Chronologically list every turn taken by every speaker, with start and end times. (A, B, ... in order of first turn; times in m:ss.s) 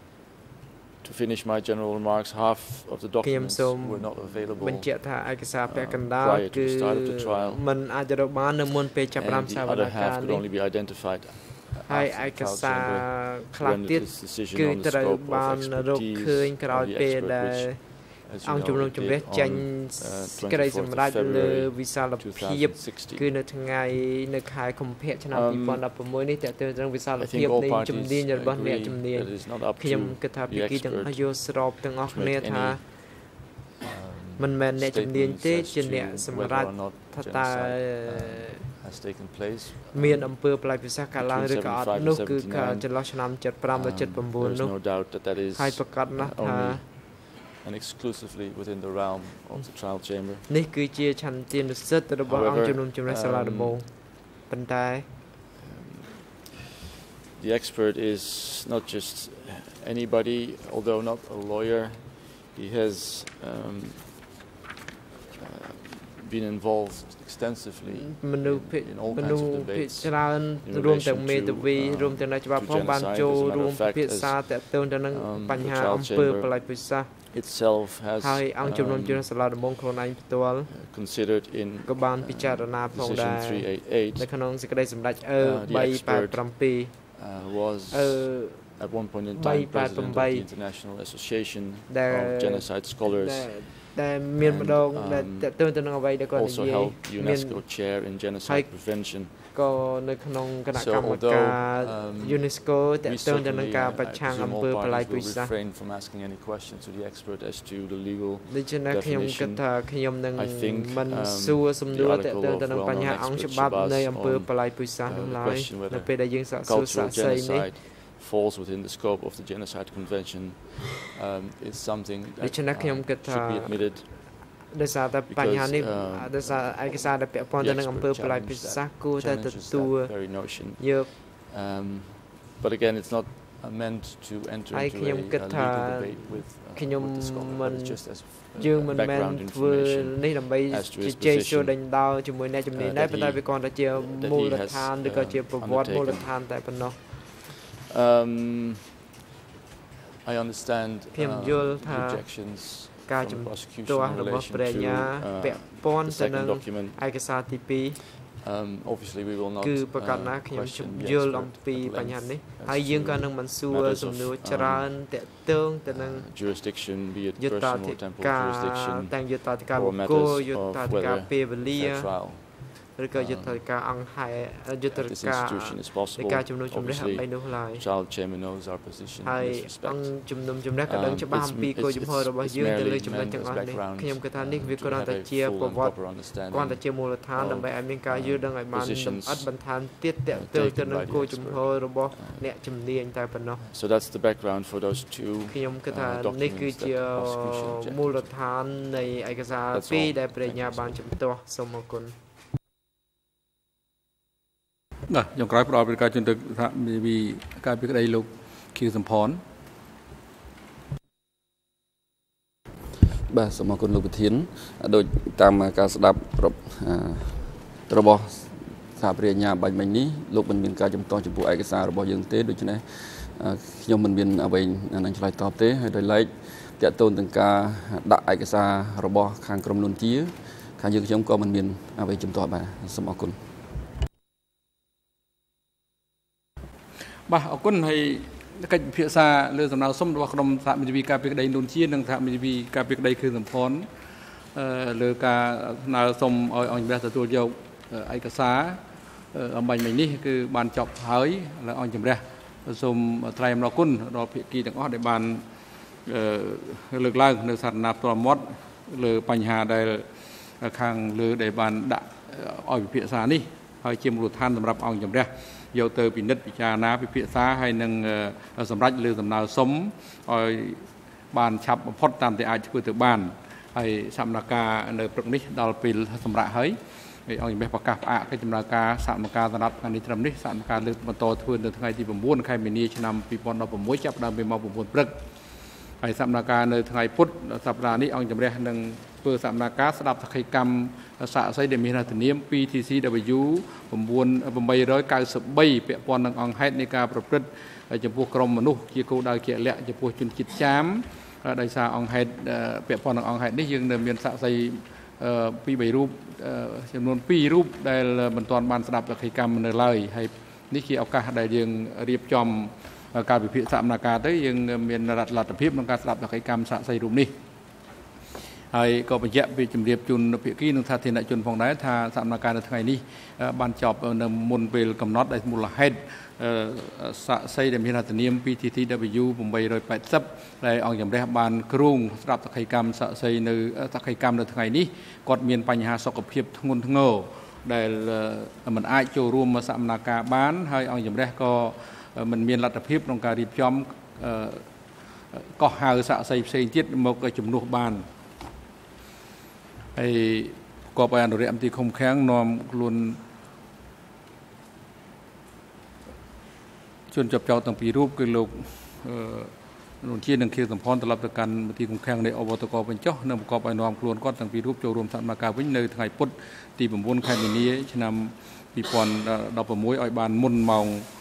0:01.0-0:04.9 A
0:03.2-0:10.5 B
0:05.6-0:07.6 A
0:09.2-0:23.3 A
0:11.8-0:33.1 B
0:25.3-0:25.8 A
0:27.2-0:31.4 A
0:32.0-0:32.8 A
0:33.8-0:40.4 A
0:34.4-0:38.7 B
0:39.9-0:46.9 B
0:41.1-0:43.1 A
0:43.7-0:50.5 A
0:50.4-0:55.1 B
0:52.2-0:53.8 A
0:55.6-0:56.3 A
0:57.3-1:04.2 A
1:05.4-1:16.6 A
1:07.8-1:17.2 B
1:17.3-1:19.3 A
1:18.1-1:20.7 B
1:20.7-1:24.3 A
1:21.8-1:27.0 B
1:25.4-1:26.5 A
1:27.1-1:35.5 A
1:27.9-1:30.5 B
1:31.9-1:45.5 B
1:36.3-1:39.4 A
1:40.8-2:04.1 A
1:48.4-1:57.7 B
2:02.4-2:11.1 B
2:05.3-2:21.8 A
2:14.7-2:27.2 B
2:22.7-2:26.4 A
2:27.5-2:28.8 A
2:30.2-2:37.0 A
2:31.1-2:38.0 B
2:38.3-2:44.9 A
2:39.6-2:46.3 B
2:45.9-2:53.6 A
2:47.4-2:57.8 B
2:54.9-3:00.3 A
2:59.2-3:13.6 B
3:00.8-3:09.6 A
3:10.3-3:12.5 A
3:13.6-3:18.3 A
3:15.5-3:22.1 B
3:19.7-3:21.1 A
3:25.1-3:29.4 C
3:33.3-3:53.4 D
3:57.3-4:03.9 C
4:04.5-4:08.8 C
4:09.3-4:15.4 C
4:16.0-4:20.1 C
4:20.6-4:45.1 C
4:46.0-5:17.3 C
5:18.7-5:44.6 C
5:45.3-5:48.0 C
5:49.9-5:53.2 C
5:57.1-6:11.1 C